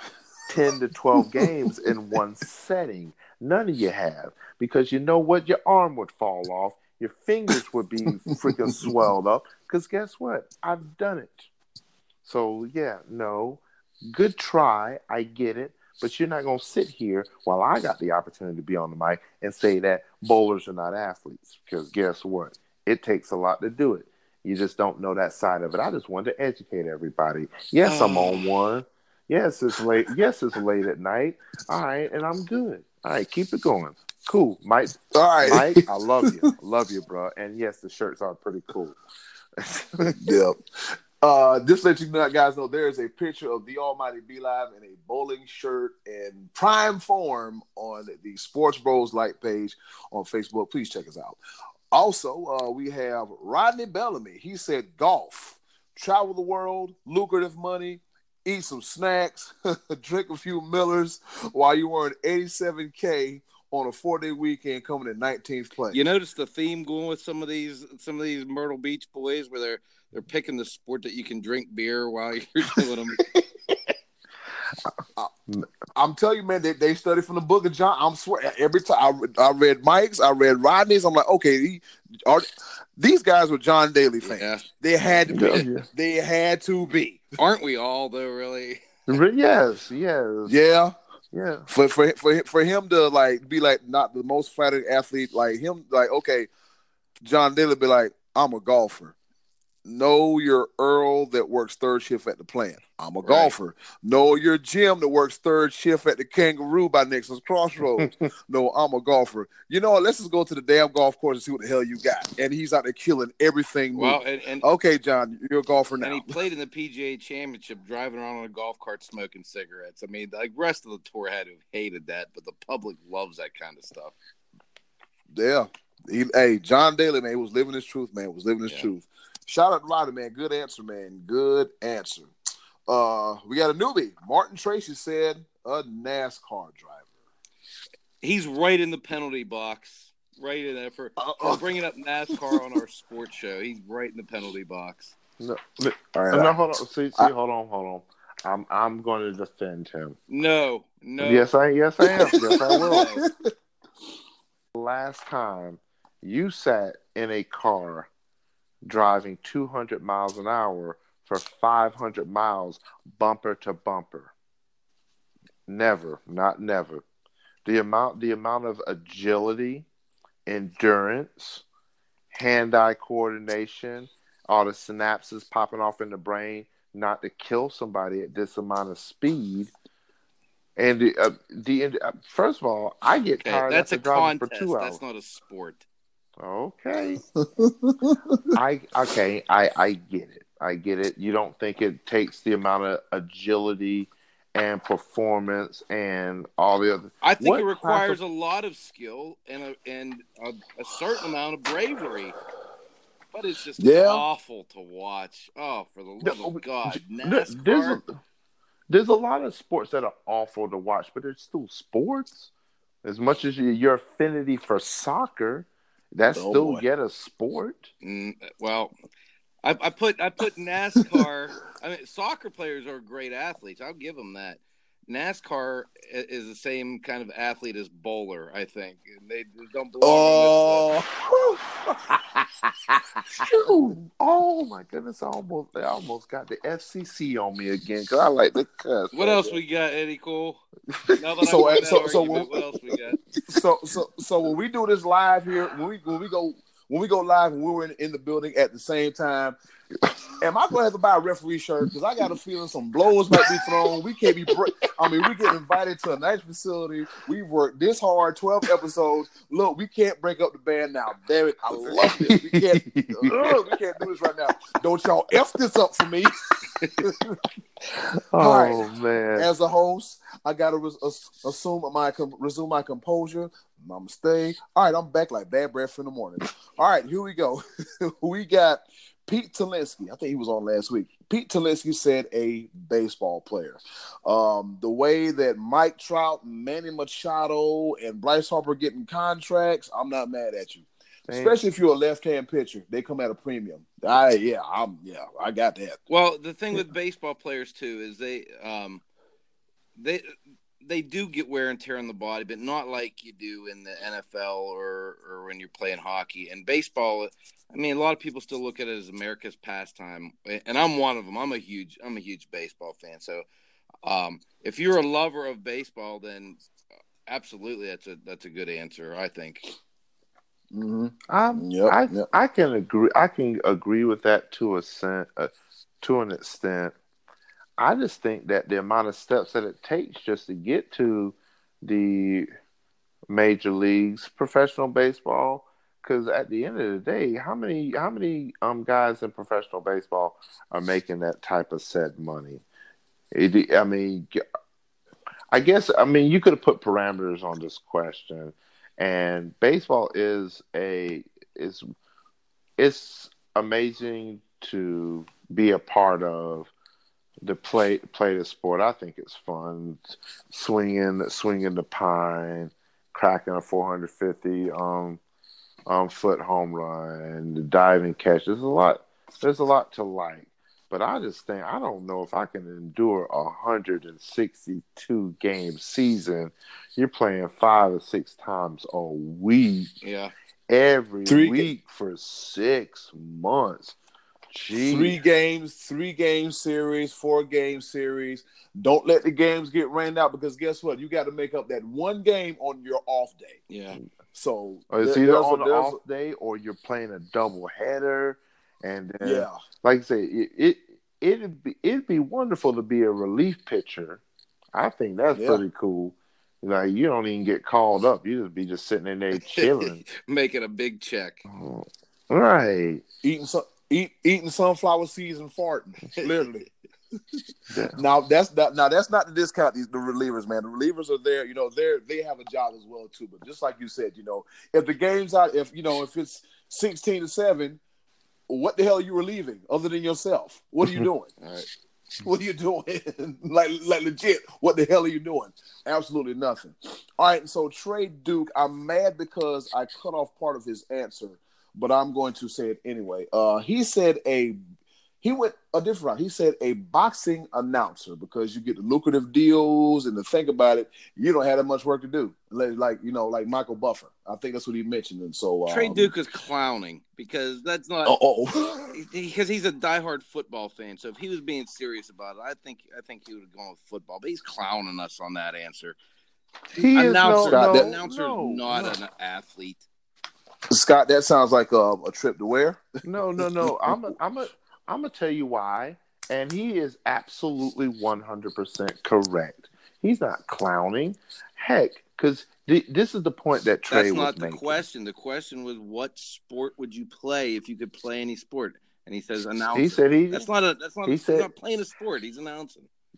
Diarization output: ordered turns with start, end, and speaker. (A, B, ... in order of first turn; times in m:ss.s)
0:00.5-0:11.5 A
0:01.2-0:01.7 B
0:08.3-0:08.9 B
0:12.2-0:39.0 A
0:27.8-0:28.5 C
0:35.1-0:36.5 B
0:39.6-0:40.4 A
0:40.2-0:51.4 B
0:51.9-1:06.0 B
1:05.9-1:13.2 C
1:16.0-1:22.5 B
1:23.0-1:27.3 B
1:24.2-1:24.6 C
1:25.3-1:25.8 A
1:27.4-1:29.0 C
1:29.1-1:30.6 A
1:30.5-1:30.9 B
1:31.3-1:31.7 A
1:31.7-1:36.5 B
1:37.2-1:39.2 B
1:39.8-1:56.4 B
1:43.2-1:43.5 C
1:54.0-1:54.6 C
1:56.0-2:04.1 C
2:05.3-2:12.3 B
2:12.9-2:17.1 B
2:18.2-2:25.2 C
2:21.2-2:21.7 B
2:25.4-2:30.2 A
2:26.1-2:26.6 B
2:30.3-2:31.5 C
2:31.2-2:33.2 A
2:32.0-2:33.5 B
2:32.9-2:33.2 C
2:34.7-2:38.1 A
2:38.8-2:44.3 A
2:45.7-2:47.0 A
2:47.6-2:49.9 A
2:50.5-2:51.6 A
2:52.3-2:59.7 A
3:00.8-3:05.0 A
3:03.4-3:05.8 C
3:06.4-3:07.2 A
3:07.4-3:08.4 B
3:08.6-3:18.2 A
3:17.2-3:22.4 C
3:23.3-3:28.0 C
3:23.8-3:24.2 B
3:26.2-3:28.1 A
3:28.9-3:32.5 A
3:33.0-3:37.9 A
3:36.4-3:36.8 B
3:38.0-3:38.9 C
3:39.6-3:51.0 C
3:50.0-3:53.0 B
3:53.4-3:59.6 A
3:59.1-4:00.6 C
4:01.0-4:02.1 A
4:01.2-4:03.2 C
4:01.4-4:02.6 B
4:03.5-4:09.6 B
4:10.4-4:26.3 B
4:13.4-4:15.3 A
4:21.7-4:23.7 A
4:27.0-4:27.3 B
4:28.3-4:29.5 A
4:28.4-4:28.8 B
4:29.4-4:56.0 B
4:51.3-4:51.6 A
4:56.1-4:59.0 C
5:00.0-5:13.4 C
5:14.0-5:16.6 C
5:17.3-5:19.7 C
5:20.7-5:22.3 B
5:21.3-5:27.0 A
5:27.8-5:32.5 A
5:33.3-5:42.6 A
5:43.3-5:44.4 A
5:45.5-5:51.8 A
5:52.8-5:56.7 A
5:57.4-6:05.2 A
6:05.9-6:19.9 A
6:20.0-6:20.3 C
6:20.7-6:24.0 A
6:21.3-6:21.7 B
6:24.5-6:25.2 A
6:24.7-6:33.6 B
6:33.7-6:34.0 C
6:34.3-6:36.0 B
6:34.9-6:44.2 A
6:39.2-6:39.6 B
6:44.7-6:50.0 A
6:45.4-6:45.6 B
6:49.4-6:51.4 C
6:51.5-6:53.0 A
6:53.2-6:56.7 B
6:57.7-6:58.0 A
6:57.9-7:07.8 B
7:08.5-7:11.3 B
7:11.4-7:11.7 C
7:12.2-7:24.6 B
7:25.2-7:36.1 B
7:35.7-7:38.2 C
7:38.0-7:38.9 B
7:38.9-7:46.0 C
7:46.7-7:48.9 A
7:46.9-7:49.8 C
7:47.5-7:47.9 B
7:50.7-7:52.8 B
7:53.0-8:04.8 A
7:53.4-7:54.1 B
8:03.9-8:12.9 C
8:09.7-8:10.5 A
8:11.1-8:11.5 A